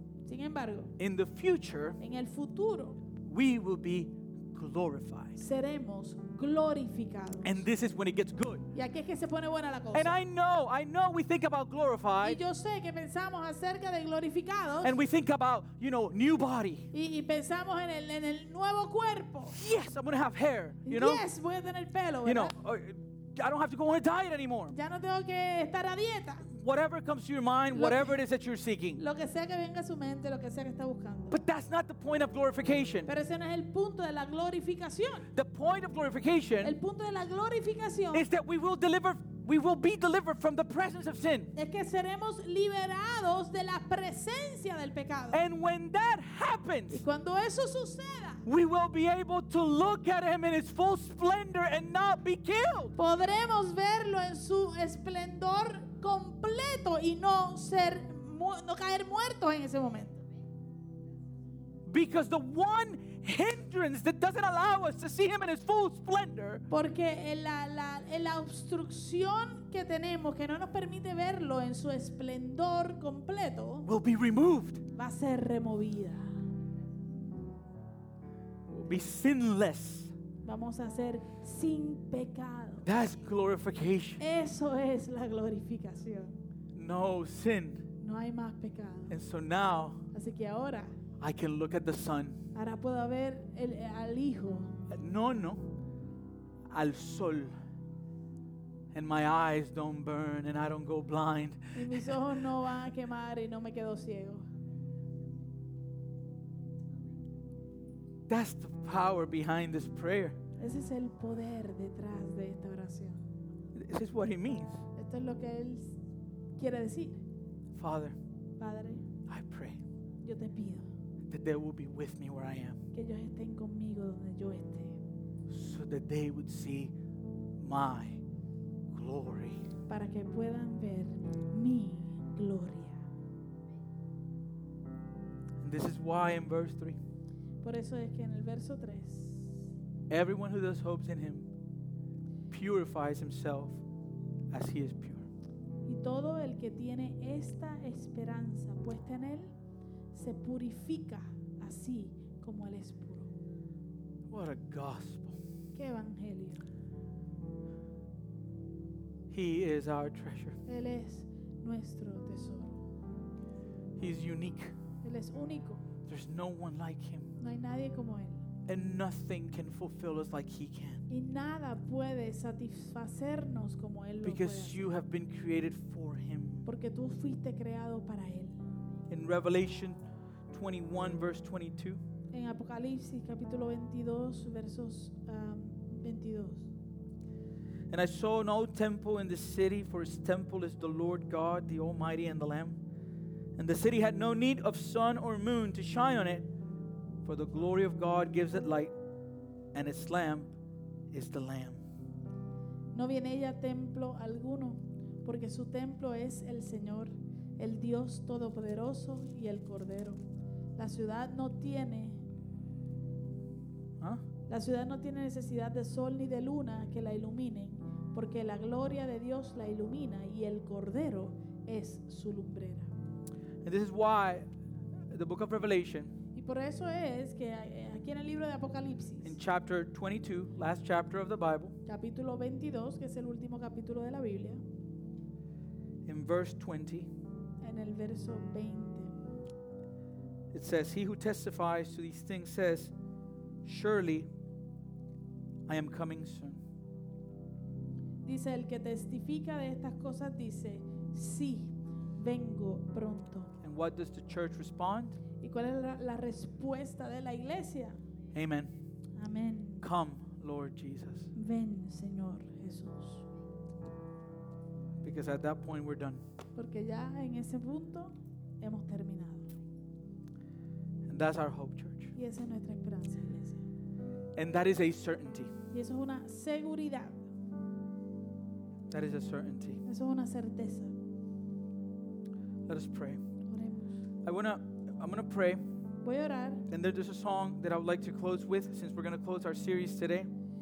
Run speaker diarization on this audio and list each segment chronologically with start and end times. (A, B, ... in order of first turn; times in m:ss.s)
0:00.2-0:01.0 A
0:01.0-0:02.0 B
0:02.0-0:03.0 A
0:03.2-0:05.4 B
0:05.4-0:07.6 A
0:07.4-0:08.7 B
0:08.7-0:10.2 A
0:09.9-0:12.4 B
0:12.2-0:15.0 A
0:14.8-0:16.9 B
0:16.9-0:19.6 A
0:19.5-0:21.3 B
0:20.9-0:22.5 A
0:22.2-0:24.8 B
0:24.7-0:26.5 A
0:26.5-0:29.0 B
0:27.7-0:28.2 A
0:29.0-0:31.4 A
0:31.3-0:33.1 B
0:33.0-0:35.3 A
0:35.3-0:36.8 B
0:36.6-0:38.3 A
0:38.1-0:41.5 B
0:41.6-0:45.4 A
0:45.3-0:47.0 B
0:46.9-0:48.4 A
0:48.4-0:53.0 B
0:53.0-1:00.2 A
1:01.8-1:06.6 B
1:06.7-1:13.9 A
1:13.8-1:14.8 B
1:14.9-1:16.4 A
1:18.7-1:20.1 B
1:20.4-1:22.9 A
1:22.8-1:24.2 B
1:24.2-1:26.4 A
1:26.7-1:27.9 B
1:28.0-1:29.2 A
1:29.1-1:30.0 B
1:30.1-1:30.9 A
1:31.2-1:32.4 B
1:32.5-1:34.8 A
1:34.9-1:35.7 B
1:36.7-1:37.5 B
1:38.9-1:42.2 B
1:41.8-1:44.5 A
1:48.3-1:50.4 B
1:50.6-1:53.2 A
1:53.7-1:54.8 B
1:55.0-1:56.0 A
1:56.6-1:57.2 A
1:57.7-1:58.2 B
1:58.6-1:59.1 A
1:59.3-1:59.8 B
2:00.2-2:00.9 A
2:01.3-2:02.8 B
2:02.9-2:05.0 A
2:05.5-2:07.0 B
2:07.6-2:08.2 B
2:08.9-2:09.6 B
2:09.9-2:13.0 A
2:15.6-2:17.0 B
2:17.6-2:19.7 A
2:20.1-2:21.5 B
2:22.5-2:23.8 B
2:24.5-2:25.3 B
2:25.9-2:29.5 A
2:30.1-2:33.3 A
2:34.3-2:35.4 B
2:35.8-2:36.7 A
2:39.3-2:40.6 B
2:40.7-2:42.8 A
2:44.0-2:44.8 B
2:45.0-2:45.9 A
2:46.0-2:47.3 B
2:47.4-2:48.5 A
2:48.7-2:51.0 B
2:51.1-2:54.8 A
2:54.2-2:56.7 B
2:56.7-2:58.6 A
2:59.1-3:00.0 B
3:00.5-3:02.0 B
3:02.3-3:06.7 A
3:07.9-3:12.8 B
3:13.6-3:16.5 B
3:17.2-3:18.9 B
3:19.7-3:20.5 B
3:21.1-3:21.8 B
3:22.9-3:30.2 A
3:30.8-3:32.2 A
3:34.5-3:42.9 A
3:43.6-3:44.5 B
3:45.1-3:46.2 B
3:46.3-3:49.4 A
3:49.2-3:51.8 B
3:51.9-3:54.6 A
3:56.0-3:57.1 B
3:57.6-3:59.2 A
4:00.5-4:02.9 B
4:03.6-4:04.3 B
4:05.7-4:06.6 B
4:08.2-4:13.5 A
4:13.6-4:15.2 B
4:15.4-4:18.0 A
4:18.3-4:18.7 B
4:19.2-4:19.9 A
4:19.8-4:21.3 B
4:21.3-4:23.2 A
4:25.0-4:26.2 B
4:26.6-4:29.5 A
4:31.0-4:32.1 B
4:32.1-4:33.6 A
4:34.3-4:35.5 B
4:35.7-4:37.2 A
4:38.9-4:39.8 B
4:39.8-4:41.0 A
4:42.7-4:43.2 B
4:43.5-4:44.0 A
4:44.2-4:45.6 B
4:46.0-4:46.7 A
4:46.7-4:50.3 B